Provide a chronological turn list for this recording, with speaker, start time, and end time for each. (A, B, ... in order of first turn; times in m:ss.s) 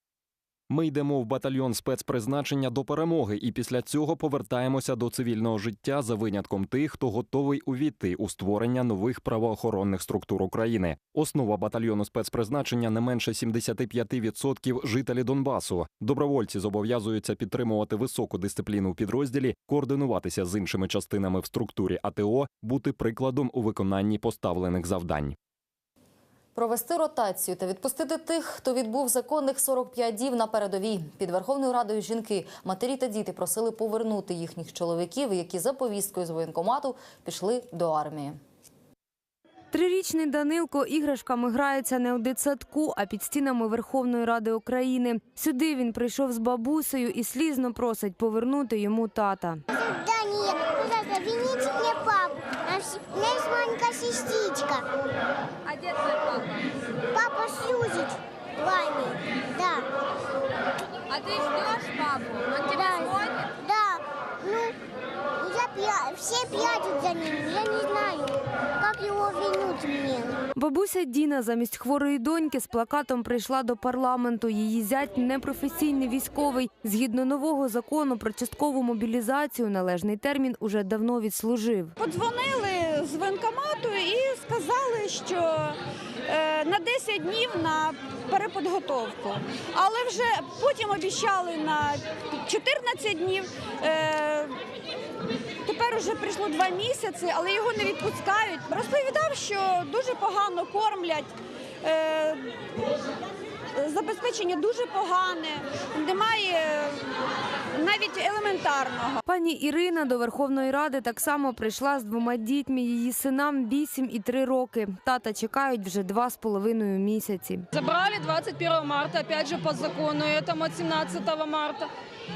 0:00.7-0:25.4 A
0:26.6-0:38.4 B
0:39.7-0:49.6 C
0:49.7-0:54.9 D
0:57.1-0:59.9 D
1:02.6-1:04.8 D
1:05.4-1:10.4 D
1:10.6-1:21.9 C
1:22.0-1:34.6 E
1:35.6-1:42.6 E
1:43.8-1:47.1 E
1:47.7-1:49.2 E
1:49.2-1:57.7 C
1:57.7-2:01.9 F